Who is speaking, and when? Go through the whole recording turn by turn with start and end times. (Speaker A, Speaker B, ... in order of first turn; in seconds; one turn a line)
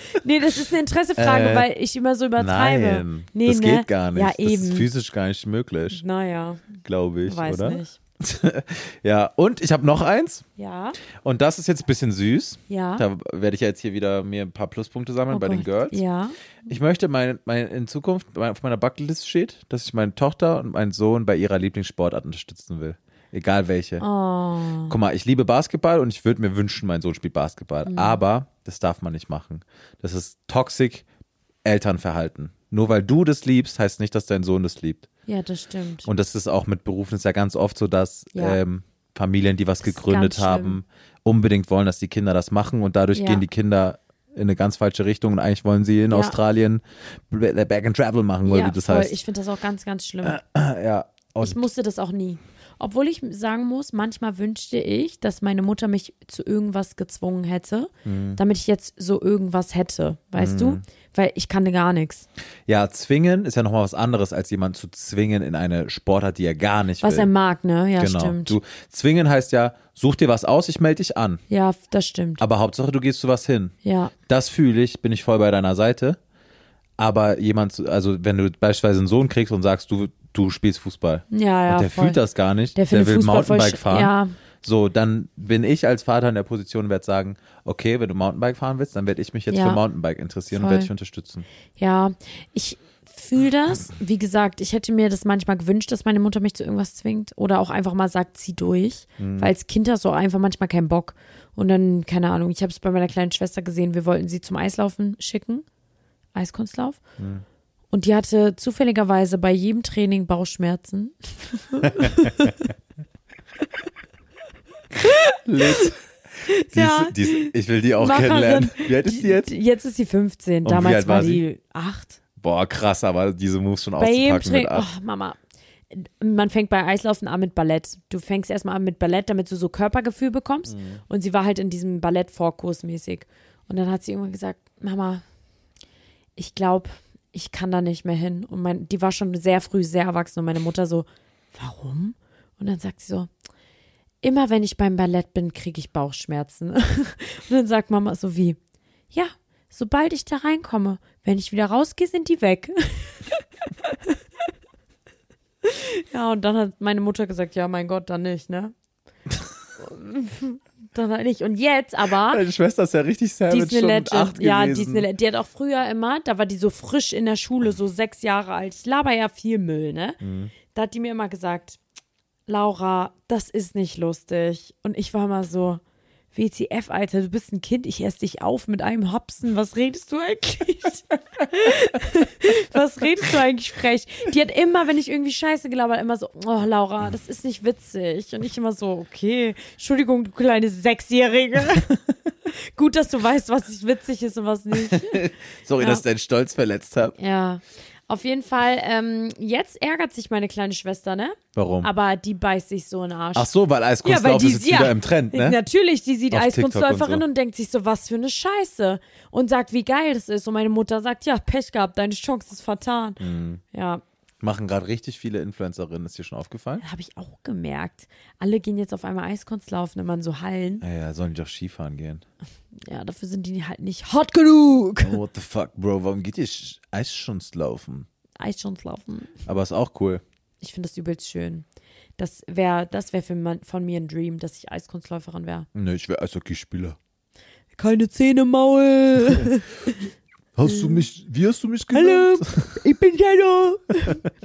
Speaker A: 0.1-4.9
Speaker B: 1.2-1.7
Speaker B: 2.4-6.0
Speaker A: 5.9-8.0
Speaker B: 6.8-10.4
Speaker A: 10.6-11.0
Speaker B: 11.2-16.0
Speaker A: 12.7-13.1
Speaker A: 15.3-16.4
Speaker B: 16.7-24.0
Speaker A: 24.0-25.0
Speaker B: 24.9-31.1
Speaker A: 27.9-28.2
Speaker B: 31.6-35.1
Speaker A: 35.3-36.1
Speaker B: 36.1-49.2
Speaker A: 38.4-38.6
Speaker A: 39.8-40.8
Speaker A: 43.1-43.4
Speaker A: 46.1-46.4
Speaker A: 48.5-50.4
Speaker B: 50.2-51.6
Speaker A: 51.4-62.3
Speaker B: 58.0-58.4
Speaker B: 60.4-60.8
Speaker B: 62.7-67.3
Speaker A: 67.0-68.6
Speaker B: 68.0-71.4
Speaker A: 71.5-72.4
Speaker B: 72.4-73.7
Speaker A: 73.8-74.1
Speaker B: 74.2-76.2
Speaker B: 77.0-91.5
Speaker A: 81.3-82.2
Speaker A: 82.8-84.3
Speaker A: 89.5-89.8
Speaker A: 90.5-90.9
Speaker A: 91.8-105.7
Speaker B: 99.2-99.5
Speaker A: 106.3-107.0
Speaker B: 107.2-107.4
Speaker A: 107.9-112.7
Speaker B: 111.8-112.5
Speaker A: 115.0-115.9
Speaker B: 115.5-116.0
Speaker A: 116.4-122.2
Speaker B: 116.7-119.5
Speaker B: 120.6-121.4
Speaker B: 122.4-124.9
Speaker A: 124.0-125.4
Speaker A: 125.9-135.2
Speaker B: 130.7-131.0
Speaker A: 136.4-143.3
Speaker A: 144.2-148.6
Speaker A: 149.1-154.2
Speaker A: 155.6-158.7
Speaker A: 159.8-162.4
Speaker B: 162.2-165.1
Speaker A: 163.5-170.2
Speaker B: 170.2-170.5
Speaker A: 170.7-171.8
Speaker A: 172.5-175.8
Speaker A: 176.3-196.0
Speaker B: 194.8-197.2
Speaker A: 197.2-203.5
Speaker B: 201.6-201.9
Speaker B: 203.3-205.6
Speaker A: 204.0-213.2
Speaker B: 206.3-207.2
Speaker B: 213.2-213.6
Speaker A: 213.7-214.0
Speaker B: 214.4-216.8
Speaker A: 216.8-220.8
Speaker B: 220.8-222.2
Speaker A: 222.8-225.2
Speaker B: 225.0-228.1
Speaker A: 228.4-229.4
Speaker B: 229.5-230.2
Speaker A: 230.6-231.7
Speaker A: 232.2-235.7
Speaker B: 235.7-237.0
Speaker A: 237.8-240.1
Speaker B: 240.6-242.8
Speaker A: 240.7-241.1
Speaker A: 241.9-244.2